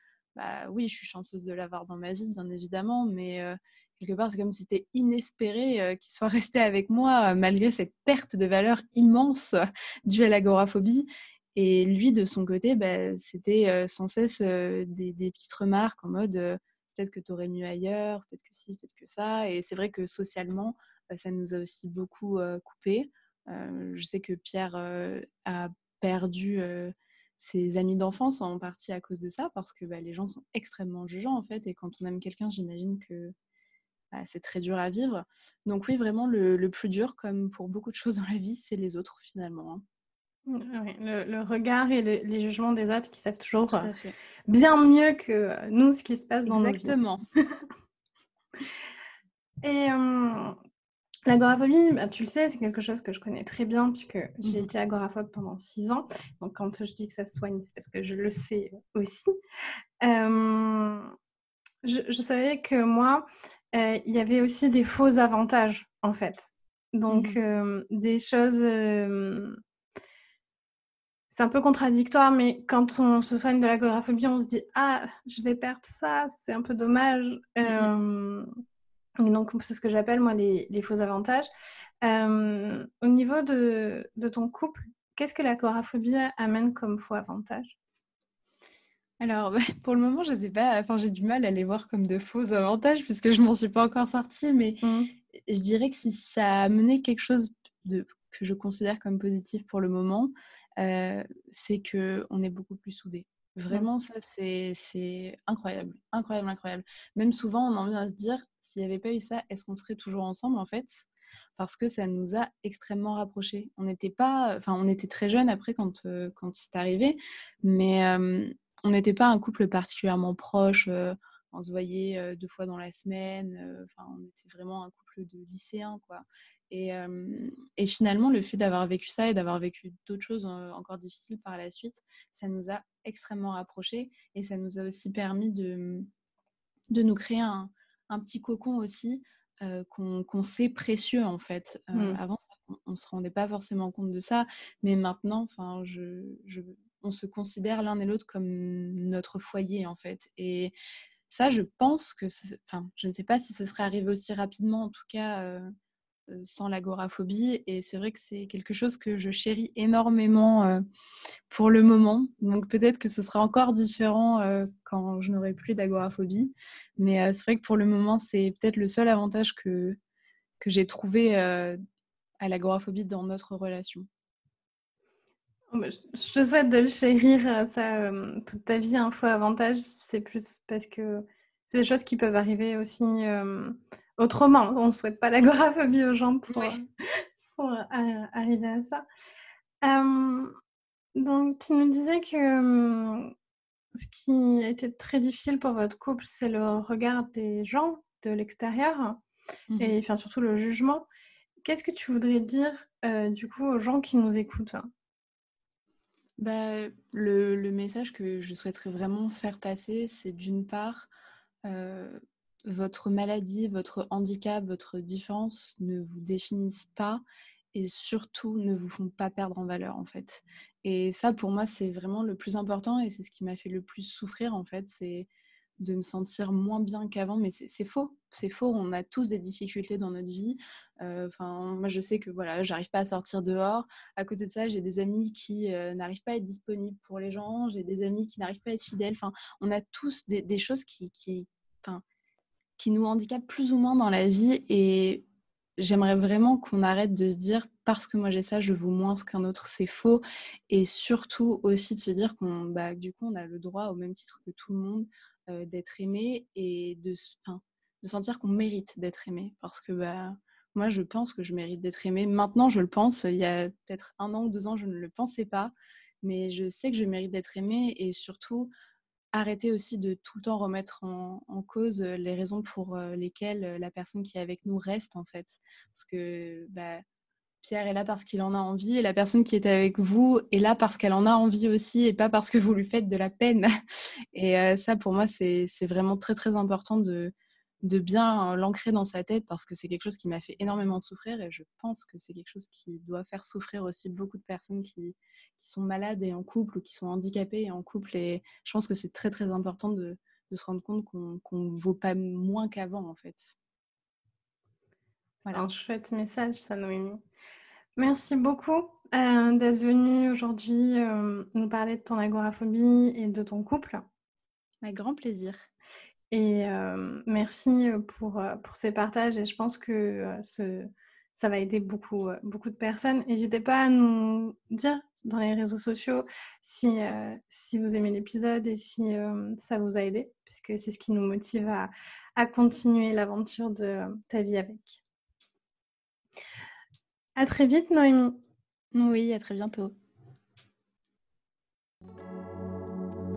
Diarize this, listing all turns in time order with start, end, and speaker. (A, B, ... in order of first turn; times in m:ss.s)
0:00.3-0:33.3 A
0:34.1-0:39.8 A
0:40.5-0:43.9 B
0:43.7-0:44.1 A
0:44.5-0:46.9 B
0:46.4-0:47.2 A
0:49.6-0:50.5 B
0:51.2-0:59.3 B
0:54.4-0:54.7 A
1:00.0-1:01.1 B
1:01.8-1:09.6 B
1:07.1-1:07.4 A
1:11.3-1:18.4 B
1:17.6-1:17.9 A
1:19.2-1:21.4 B
1:22.0-1:27.7 B
1:29.2-1:34.8 A
1:34.8-1:35.1 B
1:35.4-2:16.0 A
2:16.9-2:30.7 A
2:21.9-2:22.2 B
2:31.3-2:35.7 A
2:36.3-2:40.8 A
2:41.5-2:50.0 A
2:50.6-2:51.8 A
2:52.4-2:54.0 A
2:55.7-3:09.0 B
3:06.5-3:06.8 A
3:09.8-3:10.5 B
3:11.2-3:13.3 B
3:13.9-3:19.2 B
3:19.7-3:20.0 A
3:19.8-3:21.0 B
3:21.6-3:24.8 B
3:26.4-3:31.1 A
3:31.6-3:37.2 A
3:37.7-4:02.0 A
4:02.8-4:05.2 A
4:05.8-4:28.7 A
4:29.3-4:37.0 A
4:37.6-4:43.7 A
4:44.3-5:03.5 A
5:05.5-5:07.2 B
5:08.0-5:14.0 B
5:14.8-5:15.7 A
5:16.3-5:35.0 B
5:37.4-5:38.3 B
5:38.9-5:39.9 A